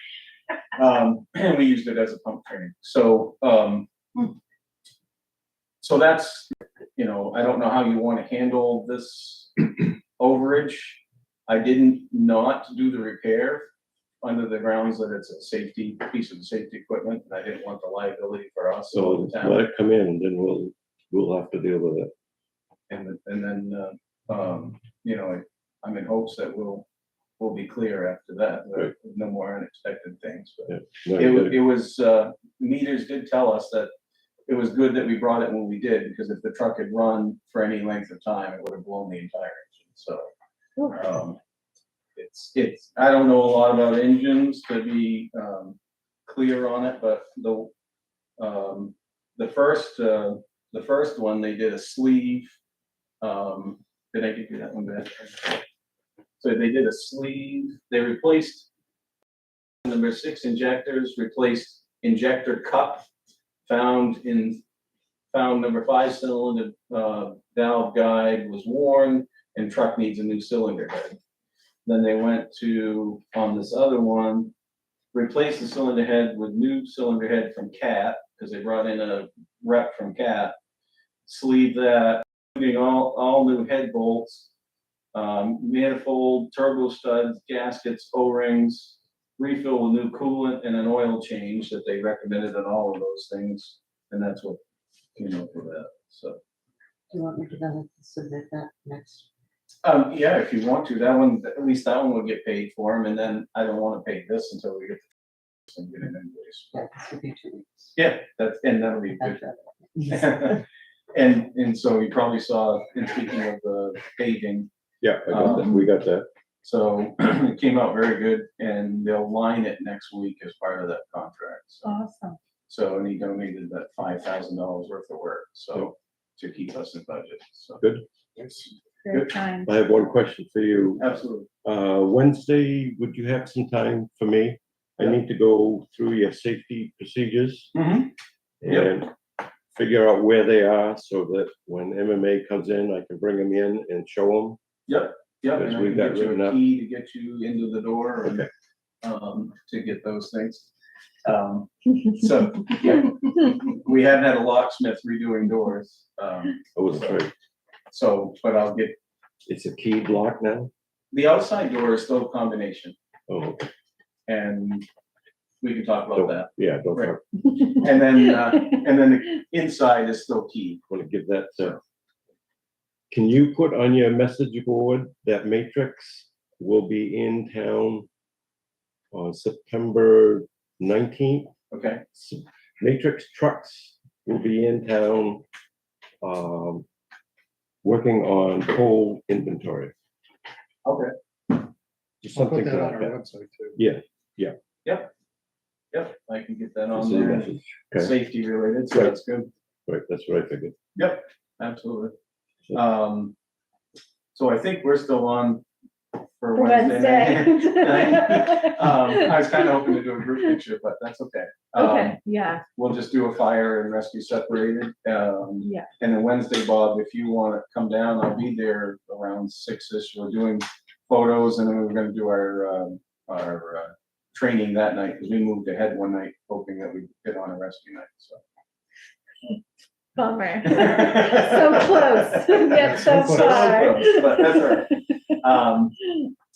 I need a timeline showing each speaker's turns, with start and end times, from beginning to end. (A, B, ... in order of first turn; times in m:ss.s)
0:00.8-0:03.9 A
0:05.8-0:13.7 A
0:14.2-0:19.6 A
0:18.9-0:22.1 B
0:22.9-0:26.8 A
0:27.4-0:33.9 A
0:30.7-0:31.6 B
0:34.5-0:40.3 A
0:40.9-0:41.4 A
0:42.2-0:47.7 A
0:48.4-0:52.6 A
0:53.2-0:55.6 A
0:56.4-0:58.7 A
0:59.8-1:03.0 A
1:03.6-1:04.6 A
1:05.3-1:11.2 A
1:11.8-1:14.5 A
1:15.1-1:20.5 A
1:21.2-1:24.5 A
1:25.1-1:34.6 A
1:35.2-1:36.4 A
1:37.1-1:39.2 C
1:39.8-1:45.1 A
1:45.7-1:46.7 A
1:47.1-1:47.4 C
1:48.0-1:49.4 A
1:50.0-1:54.7 A
1:55.0-1:56.3 B
1:55.3-1:55.8 A
1:56.6-2:01.9 A
2:01.8-2:02.4 D
2:02.7-2:07.8 A
2:08.4-2:09.3 A
2:09.0-2:09.7 D
2:09.6-2:11.1 B
2:11.0-2:11.5 A
2:11.6-2:17.7 B
2:17.7-2:18.1 A
2:18.6-2:19.1 B
2:18.6-2:18.9 A
2:19.7-2:24.6 B
2:24.9-2:28.5 A
2:25.5-2:26.6 B
2:29.0-2:30.7 A
2:31.2-2:37.2 A
2:36.7-2:37.3 B
2:37.9-2:39.0 A
2:39.4-2:40.7 B
2:41.1-2:43.0 A
2:43.3-2:43.7 B
2:44.3-2:44.9 A
2:45.6-2:47.2 A
2:46.1-2:47.2 B
2:47.8-2:50.8 A
2:50.9-2:51.8 B
2:53.1-2:58.1 B
2:59.1-3:01.5 B
3:01.7-3:02.0 A
3:02.1-3:05.4 B
3:06.2-3:06.8 B
3:07.8-3:09.9 B
3:10.8-3:11.1 A
3:12.2-3:13.2 B
3:12.3-3:13.8 E
3:13.8-3:14.6 B
3:14.8-3:15.1 A
3:15.9-3:19.5 A
3:16.9-3:18.1 B
3:19.9-3:20.7 B
3:21.0-3:22.1 A
3:22.7-3:23.3 A
3:24.3-3:25.6 A
3:26.4-3:32.2 A
3:26.5-3:29.7 D
3:31.7-3:32.6 D
3:32.7-3:48.4 A
3:35.6-3:35.9 D
3:50.2-3:54.8 D
3:50.6-3:56.1 A
3:52.8-3:53.9 E